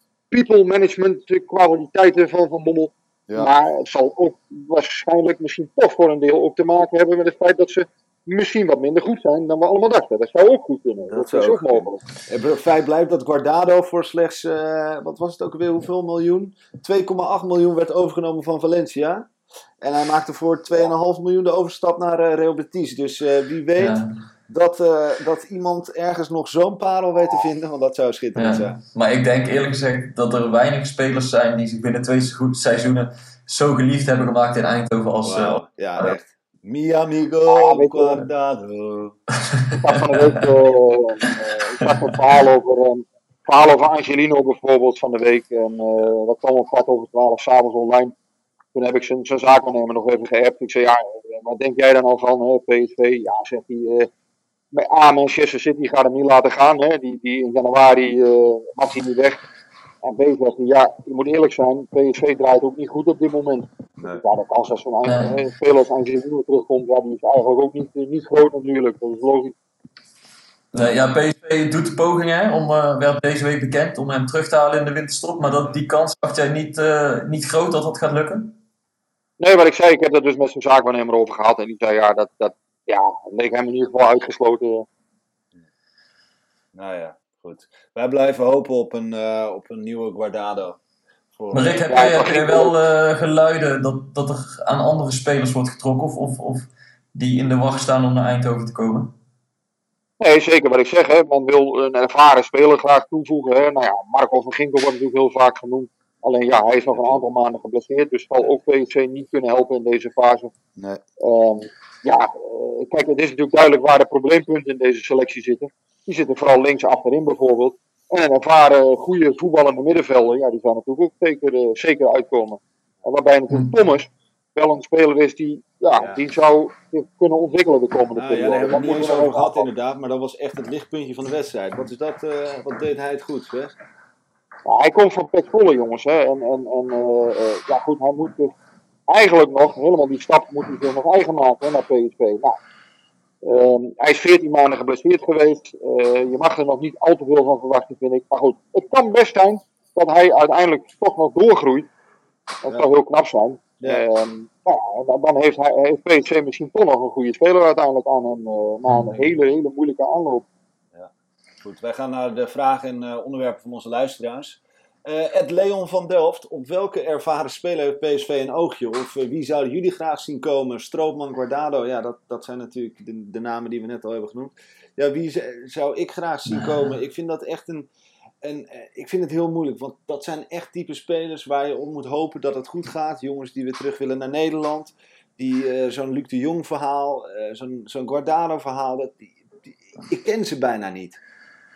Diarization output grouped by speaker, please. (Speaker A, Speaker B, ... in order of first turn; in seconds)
Speaker A: 0.3-12.0, 37.5-38.2, 39.7-48.1, 48.7-54.1, 54.7-59.4, 60.0-69.5, 79.4-84.8, 91.9-92.7, 100.2-110.5, 111.2-129.7, 134.7-138.5, 139.1-142.6, 143.4-151.9, 152.6-160.4
Speaker B: 11.1-19.3, 19.8-28.8, 35.2-39.2, 75.5-75.8, 86.7-90.8, 91.3-91.8, 106.9-107.2, 126.0-126.2, 128.1-133.8, 161.6-177.9, 178.4-191.2
Speaker C: 23.8-24.1, 28.4-36.1, 39.5-40.4, 65.0-65.4, 70.7-78.5, 91.5-99.1, 176.6-176.9